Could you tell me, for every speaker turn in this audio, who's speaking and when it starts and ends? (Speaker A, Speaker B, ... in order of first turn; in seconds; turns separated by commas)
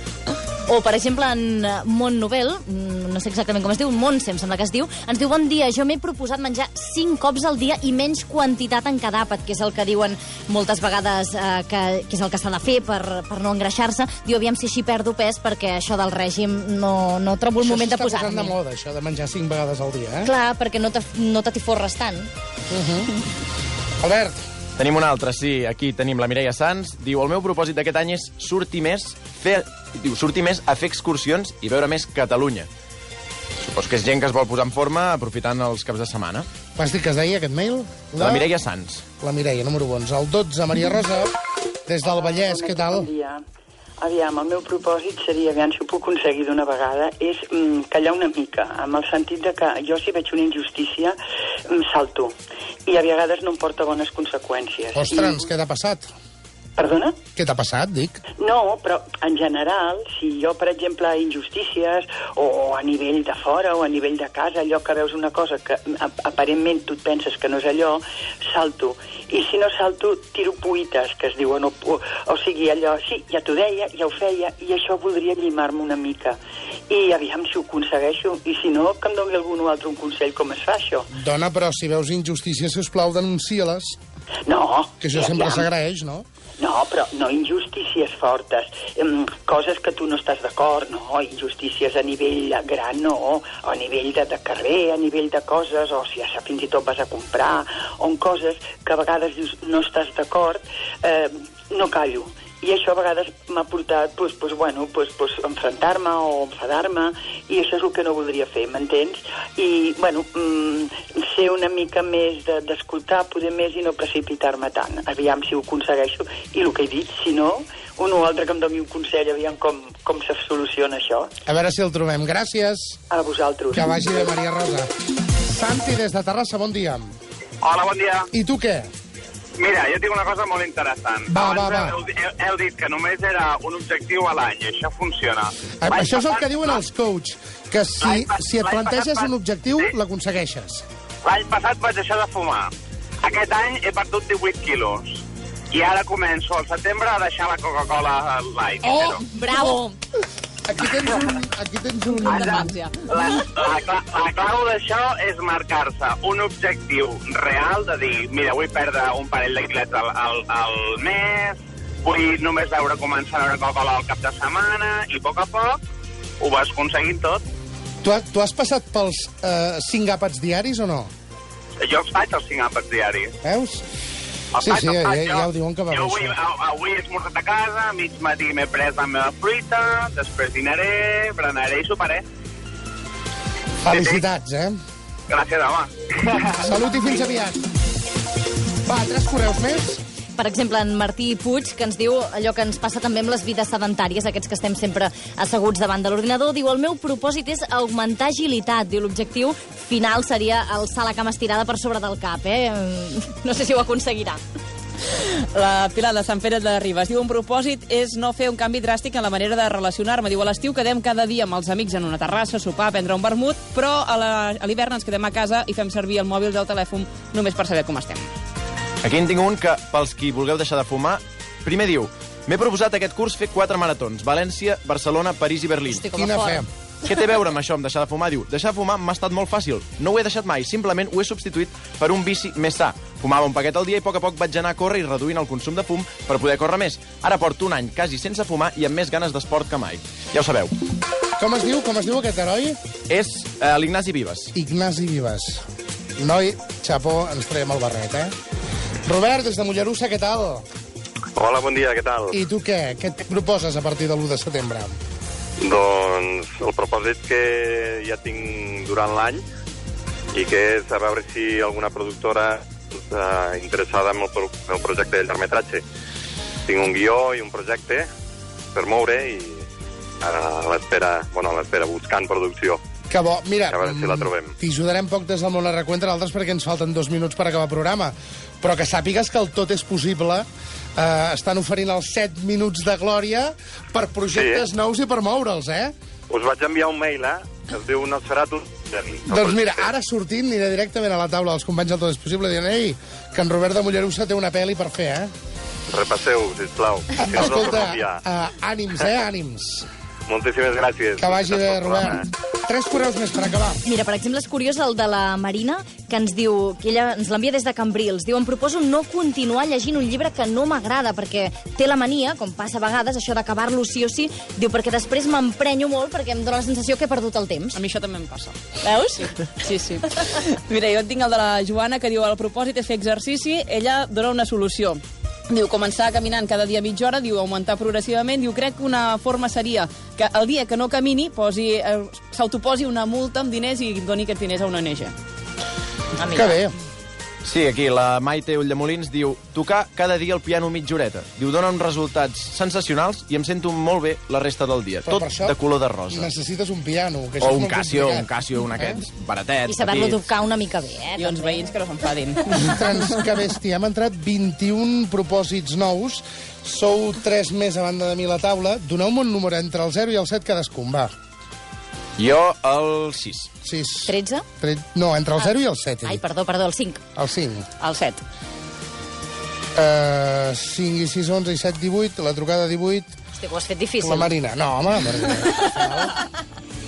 Speaker A: 0.7-18.5, Speaker B: 17.6-20.3, Speaker A: 20.2-22.3, Speaker B: 22.7-23.1, Speaker B: 24.0-24.4, Speaker C: 24.8-32.7, Speaker C: 33.6-36.5, Speaker B: 36.8-38.5, Speaker C: 38.2-39.0, Speaker B: 39.2-41.3, Speaker B: 41.9-43.1, Speaker D: 42.0-43.4, Speaker D: 44.0-51.2, Speaker D: 51.7-52.3, Speaker D: 52.9-55.4, Speaker B: 54.9-56.1, Speaker D: 56.8-57.2, Speaker B: 57.4-58.2, Speaker D: 58.4-81.1, Speaker B: 81.1-84.0, Speaker D: 84.5-85.7, Speaker B: 85.0-86.2, Speaker D: 86.6-121.3, Speaker B: 121.5-123.0, Speaker D: 123.1-123.8, Speaker B: 123.7-124.9, Speaker B: 125.4-127.1, Speaker E: 127.6-128.3, Speaker B: 128.3-128.9, Speaker E: 129.6-136.7, Speaker B: 131.3-131.9, Speaker B: 135.8-140.8, Speaker E: 138.0-139.9, Speaker E: 141.2-142.7, Speaker E: 143.2-149.2, Speaker A: 148.8-149.9, Speaker B: 150.7-152.7, Speaker E: 152.2-165.8, Speaker E: 166.4-167.4, Speaker B: 168.0-171.1, Speaker E: 171.8-173.3, Speaker B: 173.4-173.8, Speaker E: 174.5-182.2, Speaker B: 174.6-176.4, Speaker B: 183.8-184.8, Speaker E: 183.9-184.2, Speaker E: 185.3-186.6, Speaker B: 186.6-187.6, Speaker B: 188.8-190.0, Speaker A: 190.4-204.4, Speaker F: 205.2-218.3, Speaker C: 219.0-226.1, Speaker A: 225.9-226.6, Speaker B: 226.1-226.7, Speaker C: 227.0-240.7, Speaker B: 241.4-242.8, Speaker C: 243.1-244.5, Speaker B: 244.5-245.6, Speaker B: 246.2-248.3, Speaker B: 249.1-250.6, Speaker G: 251.4-252.2, Speaker B: 252.3-254.9, Speaker G: 255.6-259.4, Speaker G: 260.3-265.8, Speaker G: 266.7-268.1, Speaker G: 268.7-269.5, Speaker G: 270.2-272.8, Speaker B: 273.1-280.4, Speaker G: 273.7-274.5, Speaker B: 281.0-285.9, Speaker G: 284.3-284.6, Speaker G: 286.3-289.6, Speaker B: 289.3-295.3, Speaker G: 295.9-298.0, Speaker B: 297.2-299.9, Speaker G: 300.3-302.1, Speaker B: 301.2-303.8, Speaker A: 303.8-317.8, Speaker F: 317.7-318.6, Speaker A: 318.8-319.2, Speaker F: 319.1-335.1, Speaker A: 336.2-336.6, Speaker B: 336.3-336.7, Speaker C: 337.4-346.3, Speaker B: 345.1-349.0, Speaker C: 347.4-350.3, Speaker A: 349.6-351.6, Speaker F: 351.1-353.1, Speaker B: 352.6-361.1, Speaker C: 362.2-363.5, Speaker B: 363.6-366.2, Speaker A: 364.1-364.4, Speaker A: 366.0-367.0, Speaker B: 367.2-367.6, Speaker F: 367.8-368.2, Speaker B: 369.7-373.1, Speaker A: 373.4-374.3, Speaker B: 374.0-376.1